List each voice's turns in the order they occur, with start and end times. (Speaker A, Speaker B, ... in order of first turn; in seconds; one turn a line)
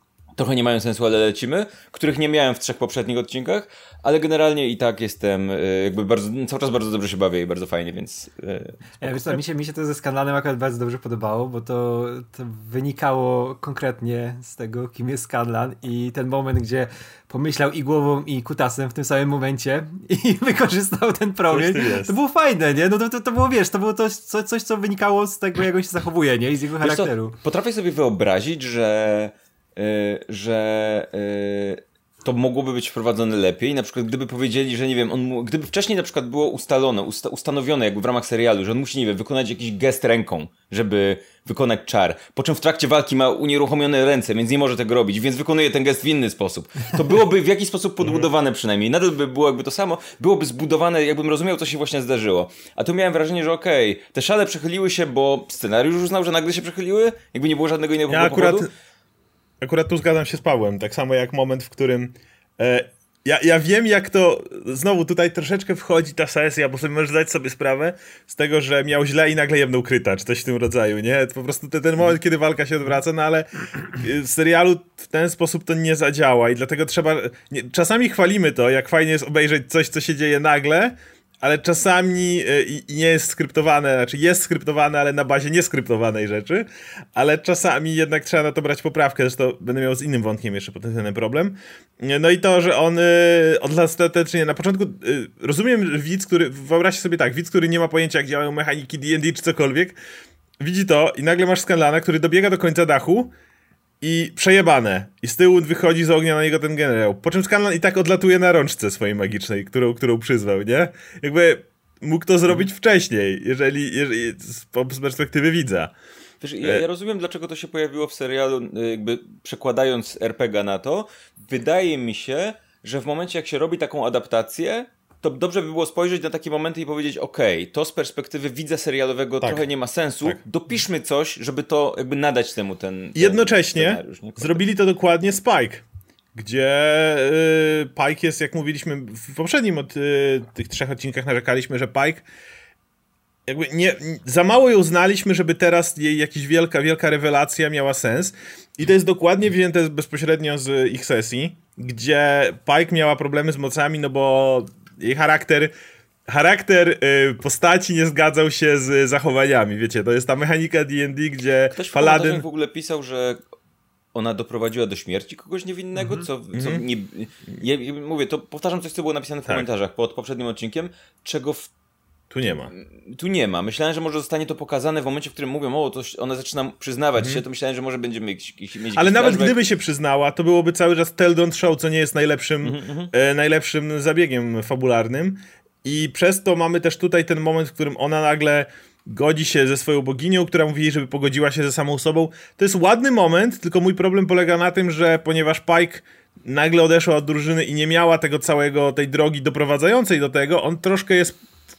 Speaker A: 0.3-9.4
Speaker B: 9.0-27.3
Speaker C: 21.5-22.1
Speaker A: 26.8-58.7
Speaker C: 48.0-48.3
Speaker C: 58.1-58.7
Speaker C: 59.6-100.0
Speaker C: 100.6-103.3
Speaker C: 104.0-115.9
Speaker A: 116.4-134.6
Speaker C: 133.2-135.8
Speaker C: 136.3-142.2
Speaker C: 143.5-155.7
Speaker C: 156.3-162.4
Speaker A: 161.7-163.4
Speaker A: 164.1-171.7
Speaker B: 165.9-166.2
Speaker C: 166.5-166.8
Speaker C: 172.3-172.7
Speaker A: 172.7-179.6
Speaker C: 177.2-177.4
Speaker C: 178.9-201.4
Speaker A: 182.6-183.1